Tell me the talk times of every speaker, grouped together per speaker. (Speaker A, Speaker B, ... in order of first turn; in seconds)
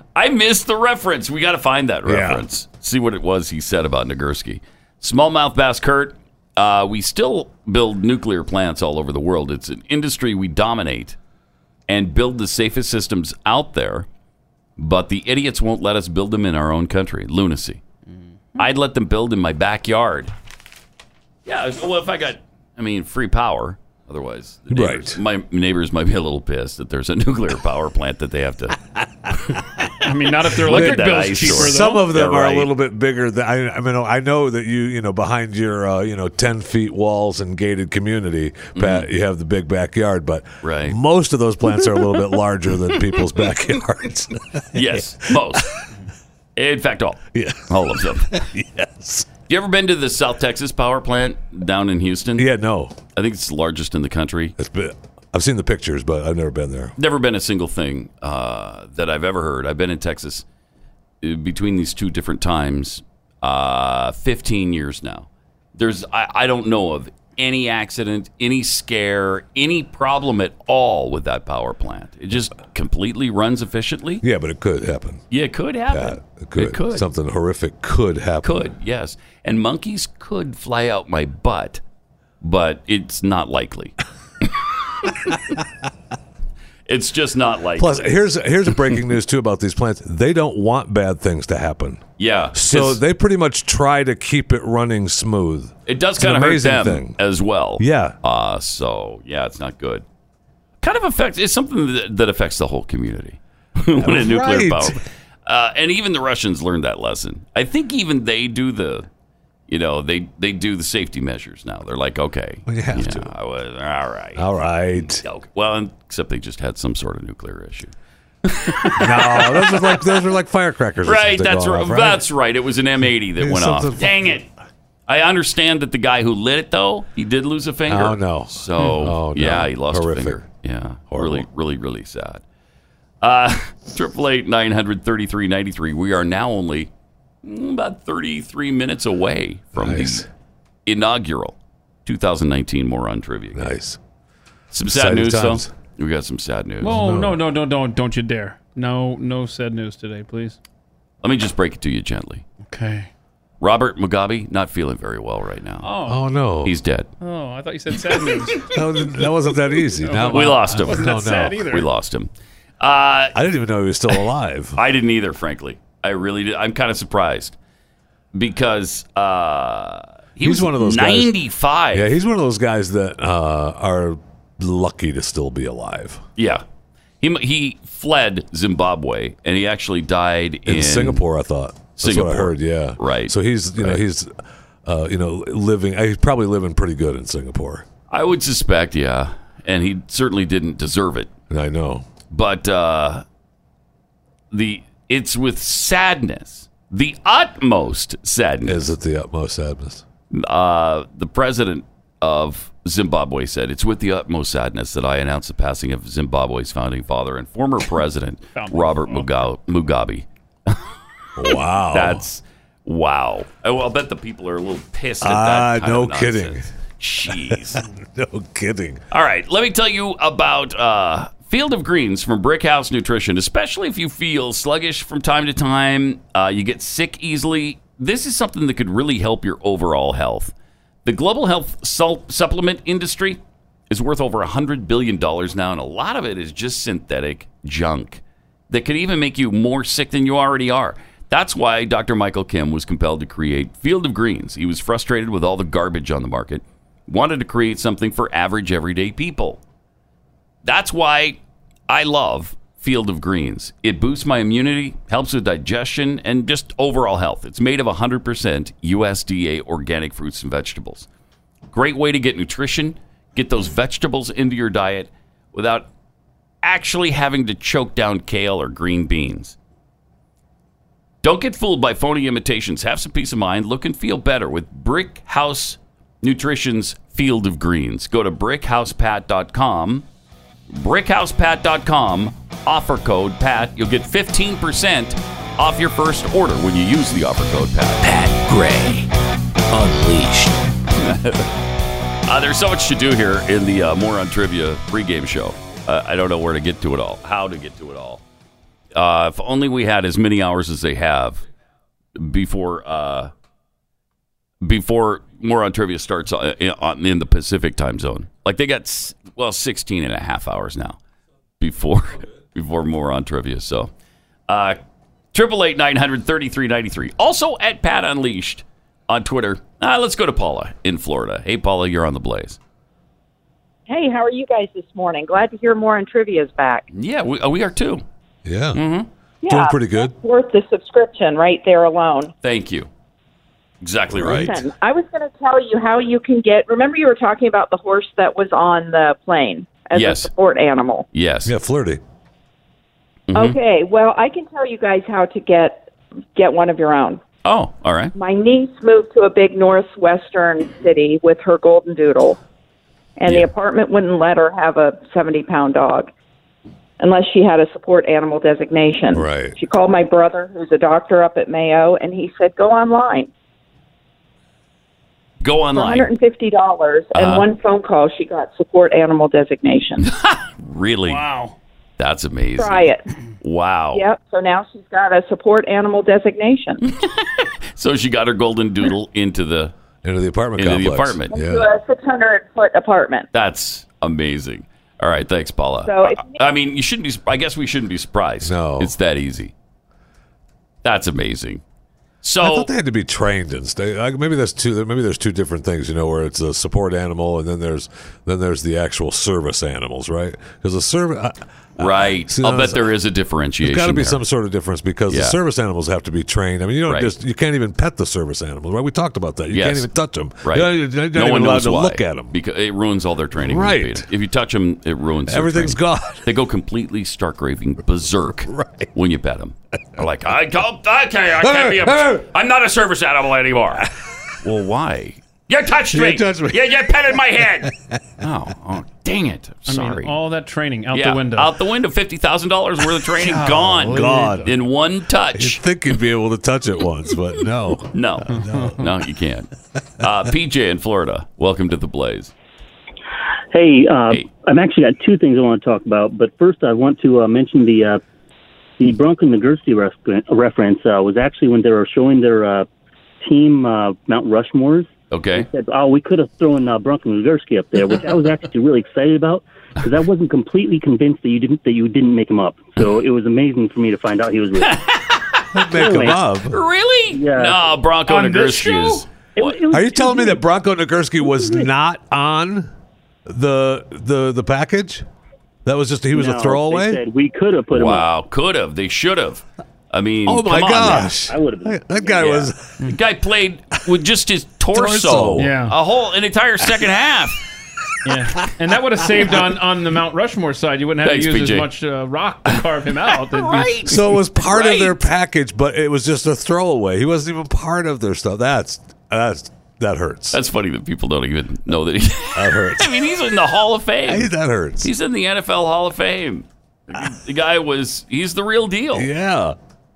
Speaker A: 0.1-11.2, 11.9-14.1, 14.8-17.8, 18.6-20.3, 21.5-28.8, 30.6-32.7, 38.8-39.1, 40.6-41.0, 44.7-45.7, 46.6-48.4, 49.5-52.5, 53.1-54.5, 57.0-60.5, 61.2-74.2, 75.3-77.1, 78.4-81.8, 82.4-84.0, 85.1-85.4, 86.9-88.2, 92.2-93.0, 95.9-100.0, 100.8-109.1, 109.7-117.9, 118.5-120.1, 121.0-124.5, 125.1-132.4, 133.2-136.9, 137.4-140.3, 140.9-143.7, 144.7-147.0, 151.2-152.4, 153.6-155.9, 156.7-157.1, 160.3-162.3, 162.8-163.4, 164.8-167.6, 168.3-172.1, 176.4-176.6, 177.2-181.2, 182.0-184.0, 188.1-191.3, 192.3-193.2, 194.5-198.9, 200.3-210.9, 211.9-217.8, 219.1-230.5, 231.1-249.6, 250.6-261.1, 261.7-265.9, 266.6-269.6, 271.2-280.1, 280.7-288.0, 291.0-291.4, 292.3-298.2, 298.9-301.4, 302.2-303.3, 304.6-311.0, 311.6-313.9, 314.5-314.8, 315.3-322.6, 326.9-328.0, 328.8-329.1, 332.4-332.9, 333.8-334.7, 339.9-340.3, 341.1-341.5, 343.3-343.6, 347.4-348.1, 365.4-366.1, 367.1-367.5, 370.0-371.2, 372.0-374.1, 376.8-379.7, 380.6-381.4, 383.3-389.5, 390.8-391.6, 392.2-392.7, 401.8-404.2, 405.1-405.4, 406.9-407.1, 409.5-409.9, 410.4-423.9, 424.4-430.1, 430.9-435.6, 437.9-439.5, 440.0-442.3, 455.1-455.5, 464.6-469.6, 477.7-481.1, 482.2-487.4, 491.0-491.7, 493.3-495.0, 500.3-504.3, 504.8-509.1
Speaker B: 2.1-2.4, 24.7-25.2, 30.7-45.8, 47.3-49.3, 52.4-53.0, 54.6-57.0, 74.2-75.2, 75.9-78.6, 87.8-97.2, 97.8-98.2, 104.0-105.0, 112.7-113.3, 114.4-115.2, 119.0-122.2, 123.4-124.5, 127.9-130.4, 131.1-131.5, 139.8-140.3, 143.6-144.0, 144.9-145.7, 146.8-147.4, 156.1-156.7, 158.7-161.7, 163.3-164.8, 170.4-171.3, 171.9-176.2, 180.7-187.9, 191.5-192.1, 198.7-200.0, 211.4-212.2, 215.2-216.7, 217.5-219.0, 328.4-328.8, 329.5-330.1, 334.2-334.5, 341.5-342.0, 359.1-359.6, 380.0-381.7, 388.4-388.9, 392.4-402.9, 403.6-412.3, 413.4-414.1, 415.3-416.3, 418.4-418.9, 421.4-422.2, 425.9-428.0, 433.6-434.5, 435.4-438.9, 465.5-466.6, 469.7-472.7, 473.3-475.1, 475.6-477.0, 480.3-482.8, 484.7-485.5, 493.9-500.4, 502.4-502.9, 504.1-504.9, 508.9-509.6
Speaker C: 30.0-32.1, 146.8-150.6, 152.7-153.1, 155.8-156.2, 157.2-158.7, 160.0-161.9, 208.6-209.4, 371.1-371.6, 429.7-431.5, 433.2-434.5, 438.3-438.7, 468.1-469.0, 485.4-485.8, 488.1-493.9
Speaker D: 288.0-289.1, 289.7-290.6
Speaker E: 323.9-326.9, 329.4-332.3, 334.2-341.1, 343.3-347.2, 348.1-352.4, 353.2-356.1, 357.0-363.3, 365.7-370.1, 372.6-373.0, 373.9-376.8, 381.3-383.3, 385.9-386.4
Speaker F: 443.5-448.0, 448.8-452.7, 453.2-464.8, 465.8-466.2, 467.1-467.6, 469.4-470.4, 471.3-471.6, 476.1-478.1, 481.2-482.3